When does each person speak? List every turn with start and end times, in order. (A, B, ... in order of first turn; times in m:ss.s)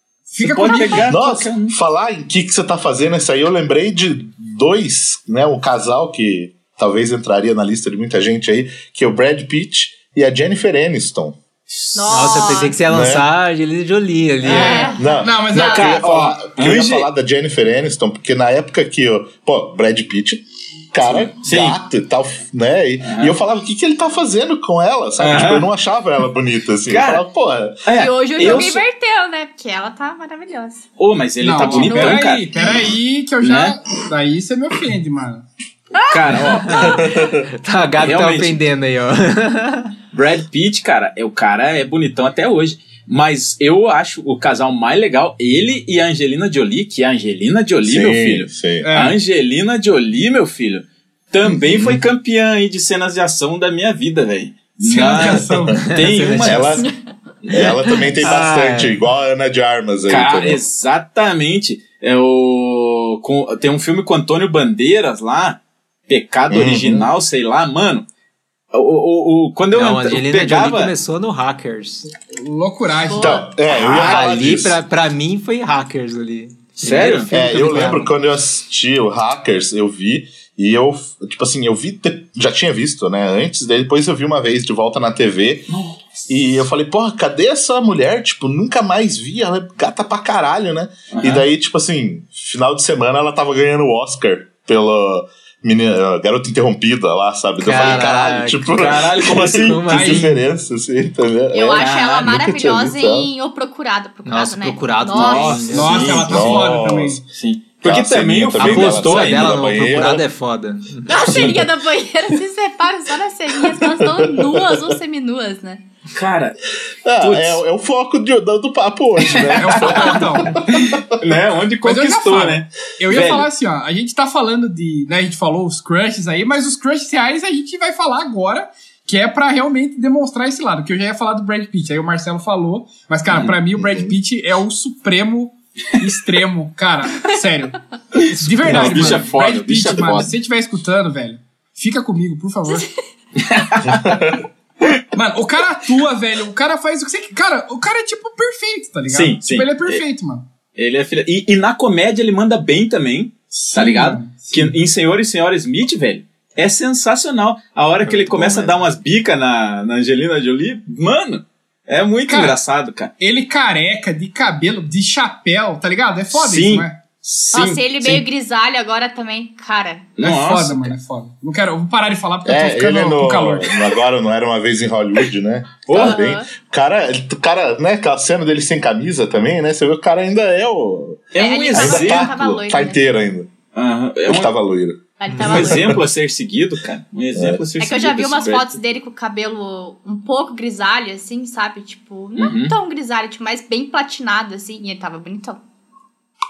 0:00.3-0:01.1 A
0:00.4-0:01.7 B
0:01.0-0:11.4 C
0:11.7-0:12.5 B
0:11.9-0:12.8 D
0:12.1-0:15.0 E
0:12.9-0:13.3 C
0:14.4-0:15.8 D
0:14.4-0:27.8 C
0:14.8-0:15.9 A
0:15.5-0:17.1 B
0:21.0-0:21.8 B
0:23.0-0:23.3 B
0:25.2-0:25.7 B
0:26.9-0:27.2 B
0:27.8-0:28.8 B
0:27.9-0:30.8 D
0:28.4-0:28.6 C
0:31.0-0:32.5 B
0:31.4-0:35.4 A
0:31.6-0:32.2 D
0:33.4-0:33.8 B
0:35.9-0:37.1 D
0:36.1-0:37.0 B
0:36.7-0:37.5 C
0:37.6-0:39.9 E
0:38.0-0:38.6 B
0:40.1-0:56.8 B
0:47.8-0:48.9 C
0:48.8-0:49.2 A
0:51.4-0:52.0 C
0:54.8-0:55.9 A
0:55.8-0:56.8 E
0:56.4-0:56.9 C
0:57.4-0:57.8 B
0:57.5-1:00.6 C
0:58.2-0:59.0 E
1:00.1-1:08.0 B
1:06.5-1:07.1 C
1:08.7-1:10.9 B
1:09.7-1:12.1 E
1:12.3-1:13.4 A
1:13.1-1:13.5 D
1:13.1-1:14.8 C
1:13.8-1:18.1 E
1:13.8-1:14.3 B
1:16.8-1:17.3 B
1:17.3-1:25.7 C
1:25.7-1:26.0 B
1:26.3-1:43.3 C
1:31.1-1:31.5 B
1:37.6-1:38.8 E
1:38.8-1:40.2 B
1:39.4-1:40.3 E
1:39.9-1:40.3 A
1:41.5-1:45.9 D
1:41.7-1:42.4 B
1:44.2-1:46.2 E
1:45.1-1:46.7 B
1:45.7-1:47.2 A
1:46.2-1:47.2 C
1:47.3-1:49.6 B
1:47.8-1:50.2 C
1:48.6-1:51.2 E
1:51.1-1:55.8 D
1:53.6-1:54.9 C
1:56.1-1:56.6 B
1:57.0-2:01.0 C
1:57.2-1:57.6 B
1:59.2-2:03.5 B
1:59.6-2:00.6 A
2:01.8-2:22.9 A
2:13.8-2:14.2 C
2:18.1-2:20.3 B
2:23.4-2:24.3 B
2:23.8-2:24.4 C
2:25.1-2:30.5 A
2:29.1-2:30.0 B
2:30.8-2:43.1 B
2:33.5-2:34.8 A
2:38.0-2:38.8 E
2:42.3-2:42.6 A
2:43.2-2:47.0 A
2:46.3-2:48.2 B
2:47.5-2:50.1 D
2:50.2-2:50.9 B
2:50.2-2:53.8 A
2:52.4-3:03.5 C
2:55.9-2:56.2 B
2:55.9-2:56.5 D
3:01.3-3:02.3 B
3:01.4-3:03.0 D
3:03.7-3:04.5 B
3:04.2-3:06.0 C
3:05.2-3:06.0 D
3:05.4-3:08.7 B
3:07.3-3:07.6 C
3:07.8-3:15.6 D
3:12.4-3:12.7 B